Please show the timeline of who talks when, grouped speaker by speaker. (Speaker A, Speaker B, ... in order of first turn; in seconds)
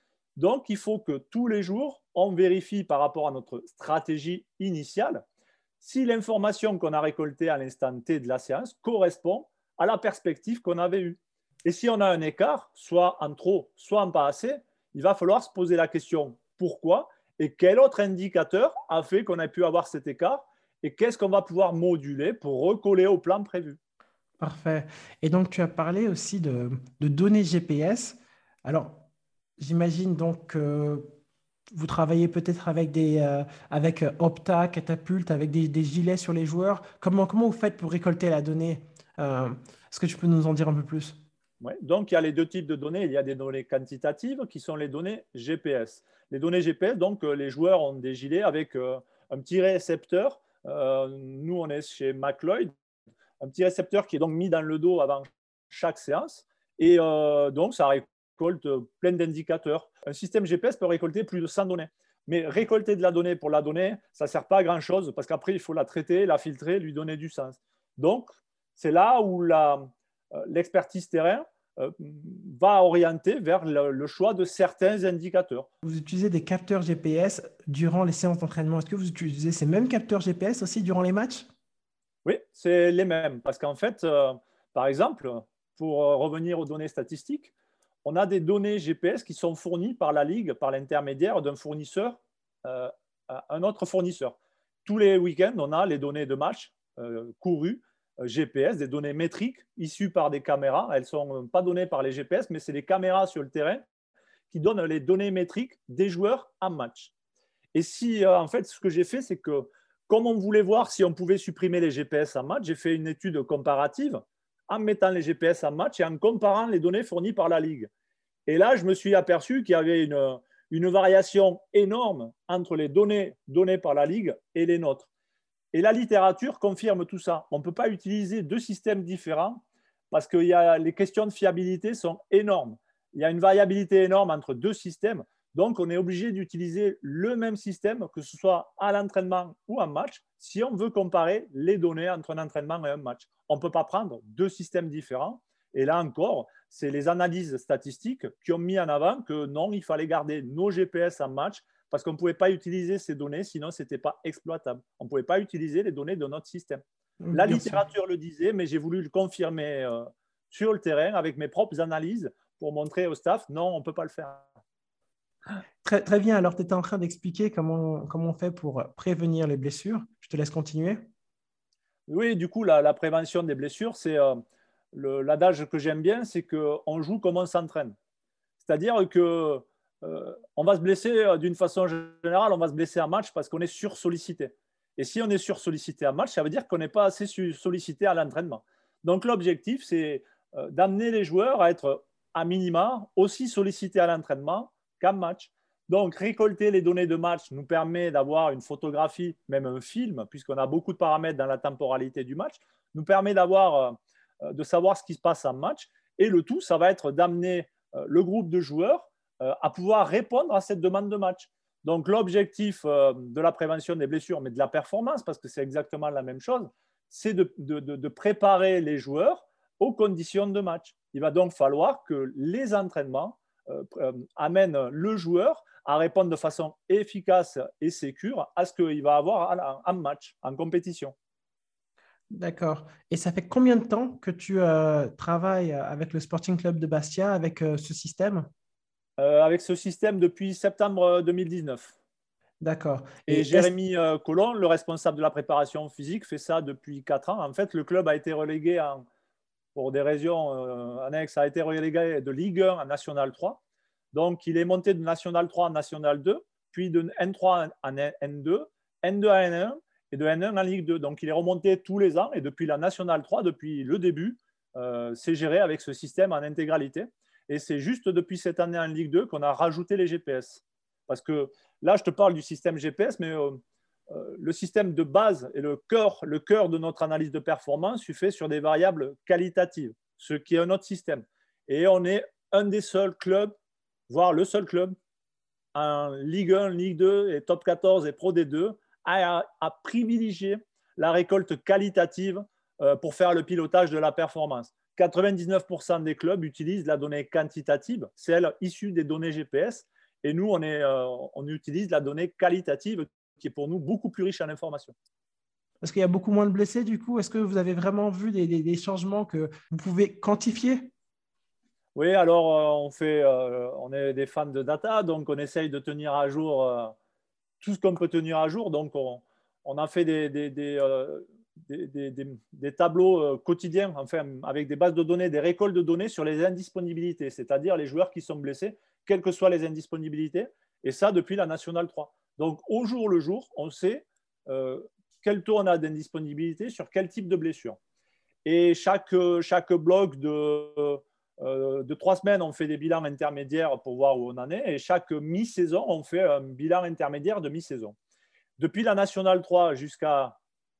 Speaker A: 0.4-5.2, 5.8-23.8, 41.6-52.7, 53.4-75.7, 82.2-87.5, 88.0-103.8, 104.5-107.1, 107.7-117.9, 118.5-125.1, 125.7-129.6, 130.1-156.8, 157.3-164.4, 172.1-174.4, 174.9-177.9, 178.6-231.1, 239.2-241.9, 243.3-249.0, 249.7-253.6, 254.1-283.5, 284.1-284.9, 285.7-304.9, 311.9-316.9, 317.6-337.8, 338.4-347.9, 348.6-350.4
Speaker B: 24.4-29.0, 29.6-31.1, 31.7-41.2, 75.8-81.5, 157.2-157.8, 165.8-171.1, 232.3-238.5, 242.6-243.7, 305.8-310.9